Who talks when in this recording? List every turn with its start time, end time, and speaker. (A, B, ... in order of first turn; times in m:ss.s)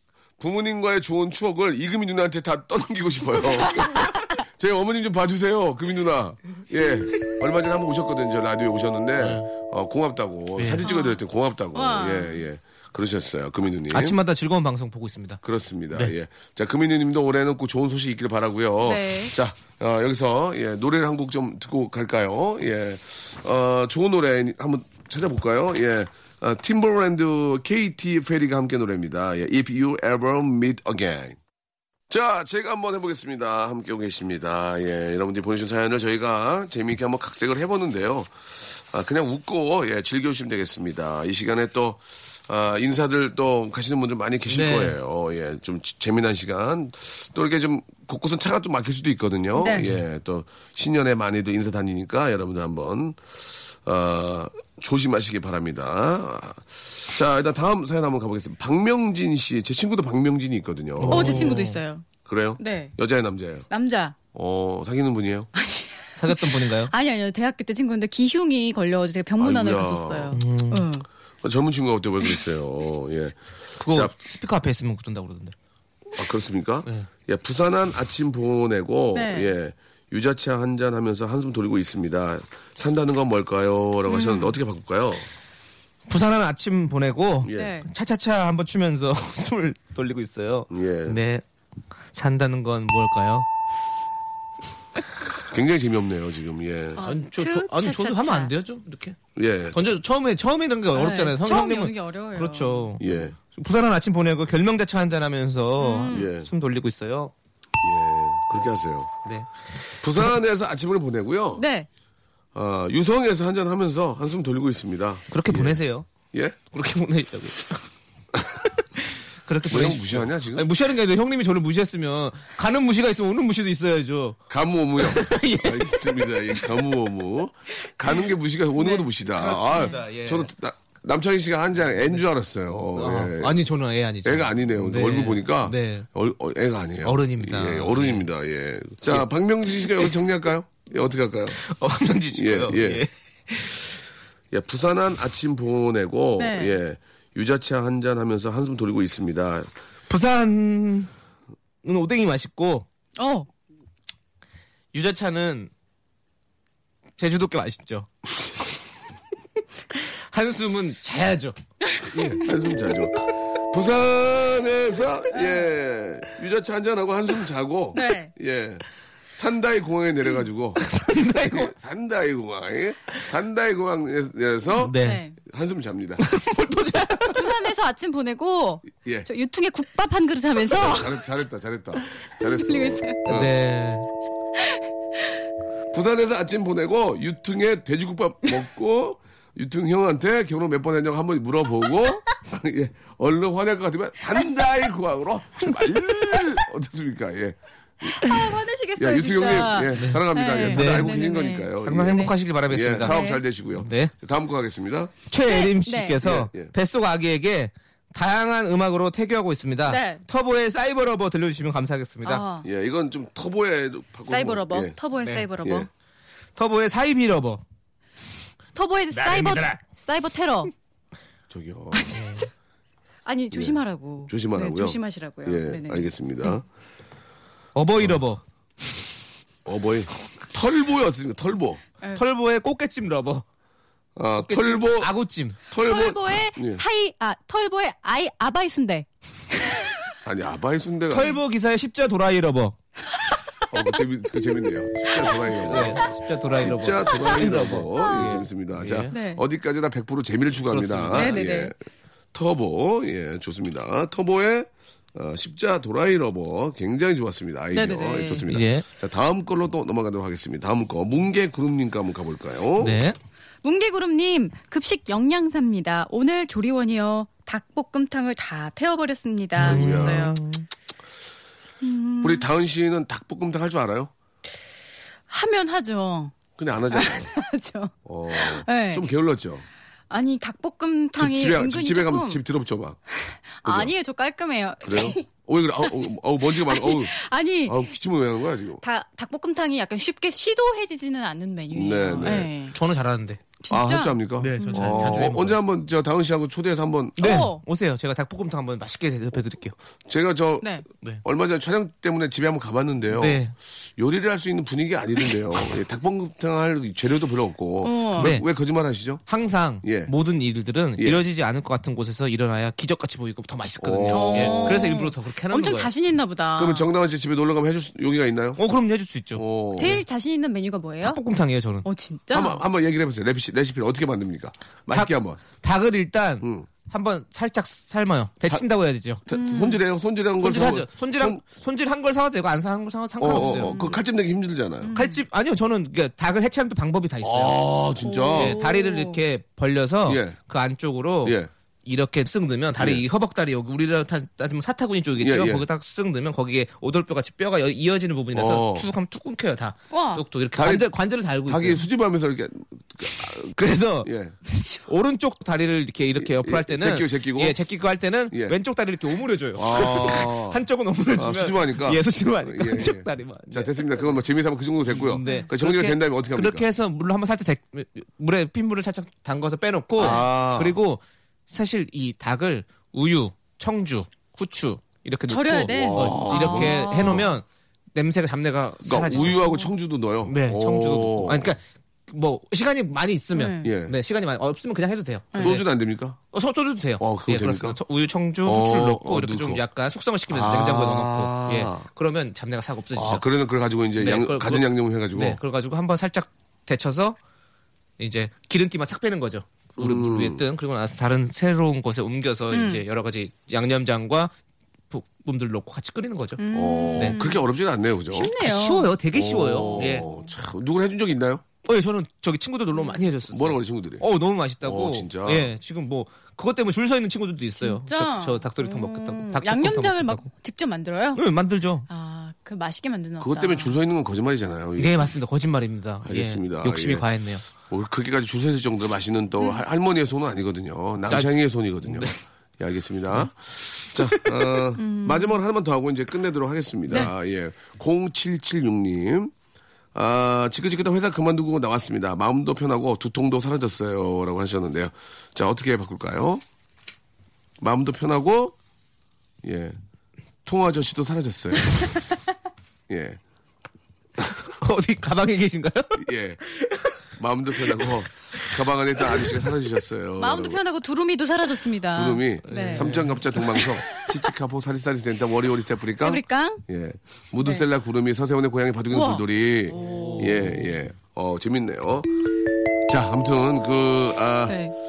0:00.4-0:14.2 A
0:09.2-0:09.5 B
0:10.6-0:10.9 B
0:10.8-0:11.2 C
0:11.8-0:12.4 C
0:13.9-0:15.4 B
0:15.4-0:31.4 A
0:18.8-0:19.3 C
0:32.1-1:01.6 A
0:44.5-0:45.0 B
0:49.6-0:49.9 C
1:01.0-1:01.8 B
1:01.1-1:02.1 C
1:02.2-1:03.7 A
1:02.6-1:02.9 C
1:03.7-1:04.2 C
1:04.3-1:05.5 A
1:05.6-1:11.1 C
1:06.2-1:06.9 B
1:09.4-1:10.4 A
1:10.3-1:10.9 B
1:11.4-1:14.1 A
1:13.8-1:15.5 B
1:16.2-1:25.3 A
1:19.1-1:19.5 C
1:24.1-1:24.5 C
1:26.1-1:31.4 B
1:27.4-1:27.7 A
1:27.5-1:27.9 C
1:30.7-1:31.2 A
1:32.1-1:33.5 B
1:35.4-1:37.0 A
1:37.0-1:38.5 C
1:37.0-1:39.2 B
1:39.4-1:39.8 A
1:39.7-1:47.3 B
1:40.9-1:43.0 C
1:43.0-1:43.4 A
1:45.8-1:46.3 C
1:46.1-1:46.5 A
1:47.8-1:49.1 A
1:49.2-1:50.2 B
1:50.0-1:51.6 A
1:51.6-1:51.9 C
1:52.5-1:55.8 A
1:55.3-1:56.1 B
1:56.3-1:56.6 A
1:56.7-1:57.9 B
1:58.4-2:04.4 B
1:59.7-2:00.7 A
2:04.5-2:13.6 A
2:05.0-2:06.2 B
2:09.3-2:10.5 B
2:13.0-2:16.1 B
2:14.2-2:21.6 A
2:17.0-2:18.3 B
2:19.1-2:20.1 B
2:21.6-2:23.8 B
2:22.3-2:23.0 A
2:24.5-2:29.7 A
2:26.4-2:26.7 C
2:30.1-2:31.1 B
2:31.8-2:32.9 B
2:33.2-2:33.5 C
2:34.9-2:35.7 B
2:37.2-2:38.6 B
2:39.9-2:41.6 B
2:42.1-2:48.8 A
2:45.3-2:45.6 C
2:47.9-2:48.3 C
2:49.4-2:50.8 A
2:50.8-2:51.7 B
2:51.5-2:56.2 A
2:54.8-2:55.2 B
2:55.0-2:55.4 C
2:56.2-2:57.6 B
2:57.3-3:01.2 C
2:59.0-2:59.3 A
3:00.7-3:03.6 A
3:02.5-3:03.2 C
3:03.3-3:04.1 B
3:05.9-3:25.1 A
3:18.2-3:22.3 C
3:20.0-3:21.1 B
3:21.8-3:23.2 B
3:23.0-3:23.4 C
3:23.8-3:24.1 B
3:25.3-3:32.5 B
3:25.5-3:26.2 C
3:26.2-3:26.7 A
3:29.9-3:30.2 C
3:32.2-3:32.7 C
3:32.6-3:35.0 A
3:34.3-3:35.9 C
3:35.2-3:35.5 B
3:35.6-3:35.9 A
3:36.6-3:37.6 B
3:38.8-3:40.7 C
3:39.1-3:39.8 B
3:41.5-3:42.0 A
3:41.9-3:42.5 C
3:42.1-3:42.4 B
3:43.2-3:46.1 C
3:43.5-3:46.6 A
3:47.8-3:48.4 B
3:49.6-3:51.8 A
3:52.2-3:53.4 B
3:54.2-3:55.1 A
3:54.4-3:55.6 B
3:55.7-3:56.8 A
3:55.8-4:00.1 C
4:00.2-4:01.4 A
4:01.1-4:02.8 B
4:03.7-4:11.8 A
4:05.6-4:09.1 B
4:09.1-4:09.4 C
4:10.7-4:11.5 B
4:11.2-4:11.7 C
4:12.3-4:23.0 A
4:17.7-4:18.4 C
4:18.5-4:18.9 B
4:22.8-4:23.2 B
4:23.6-4:30.4 C
4:29.6-4:30.6 B
4:29.6-4:30.3 A
4:31.8-4:32.5 C
4:32.2-4:34.1 A
4:35.3-4:36.3 C
4:36.6-4:37.3 A
4:36.9-4:39.1 C
4:38.0-4:39.7 A
4:40.1-4:42.4 C
4:41.2-4:43.0 A
4:43.1-4:45.3 C
4:43.6-4:43.9 A
4:44.8-4:47.2 A
4:45.9-4:47.9 C
4:47.7-4:48.8 A
4:48.8-4:52.8 C
4:51.7-4:52.5 A
4:52.2-4:53.4 B
4:53.6-4:55.2 C
4:53.7-4:57.5 A
4:54.4-4:55.6 B
4:57.2-4:59.8 B
4:57.2-4:57.6 C
5:00.1-5:00.7 A
5:01.2-5:03.4 A
5:03.1-5:03.5 B
5:04.0-5:09.2 A
5:07.8-5:08.3 C
5:08.2-5:08.5 B
5:09.3-5:15.9 B
5:09.8-5:10.1 A
5:13.8-5:15.0 A
5:14.1-5:16.9 C
5:16.6-5:18.6 A
5:18.6-5:20.0 B
5:19.4-5:20.0 A
5:19.8-5:21.2 C
5:21.0-5:21.9 B
5:21.8-5:22.6 C
5:22.3-5:25.4 A
5:24.9-5:29.3 B
5:26.4-5:26.7 A
5:29.3-5:31.4 A
5:29.3-5:29.8 C
5:30.4-5:34.0 B
5:33.2-5:34.9 A
5:33.3-5:34.0 C
5:34.8-5:35.2 C
5:35.0-5:37.6 B
5:37.2-5:38.6 A
5:38.0-5:39.2 C
5:38.4-5:51.8 B
5:40.1-5:40.4 A
5:41.2-5:41.5 A
5:42.8-5:43.0 A
5:45.2-5:45.7 A
5:48.3-5:48.9 A
5:49.9-5:50.2 C
5:50.6-5:50.9 A
5:51.5-5:54.4 A
5:53.4-5:54.1 B
5:54.8-6:04.0 B
5:56.2-5:57.6 A
5:58.3-5:58.6 A
5:59.6-6:00.6 A
6:01.2-6:06.7 A
6:04.9-6:19.4 B
6:05.2-6:05.5 C
6:10.0-6:10.8 A
6:15.3-6:17.2 C
6:15.7-6:17.3 A
6:18.8-6:21.5 A
6:19.2-6:19.7 C
6:20.3-6:25.7 B
6:23.3-6:23.7 C
6:23.6-6:23.9 A
6:25.3-6:25.6 C
6:25.4-6:26.2 A
6:26.3-6:33.2 B
6:27.0-6:27.8 A
6:28.4-6:29.6 A
6:30.3-6:31.8 A
6:33.0-6:35.4 A
6:34.0-6:37.2 B
6:38.0-6:44.3 B
6:39.8-6:40.4 A
6:42.5-6:42.8 C
6:44.9-6:46.4 B
6:46.4-6:47.4 C
6:46.5-6:48.3 A
6:48.1-6:48.9 C
6:48.2-6:50.1 B
6:49.1-6:51.4 A
6:49.8-6:50.2 C
6:51.6-7:00.3 B
6:53.3-6:54.0 A
6:54.6-6:55.5 A
6:57.6-7:01.2 C
7:01.2-7:01.9 B
7:01.9-7:03.8 C
7:03.2-7:05.1 A
7:04.8-7:07.4 B
7:06.0-7:07.1 A
7:07.6-7:19.3 A
7:11.8-7:12.2 B
7:14.8-7:15.4 C
7:20.0-7:26.4 A
7:27.6-7:28.6 A
7:29.4-7:29.8 A
7:30.4-7:31.9 A
7:32.9-7:33.2 A
7:34.4-7:36.9 B
7:36.0-7:36.4 A
7:37.2-7:40.6 A
7:40.2-7:42.9 C
7:41.9-7:52.2 A
7:42.5-7:43.6 B
7:46.0-7:46.6 C
7:48.9-7:50.2 C
7:49.7-7:50.7 B
7:52.9-7:54.6 A
7:54.5-7:54.7 C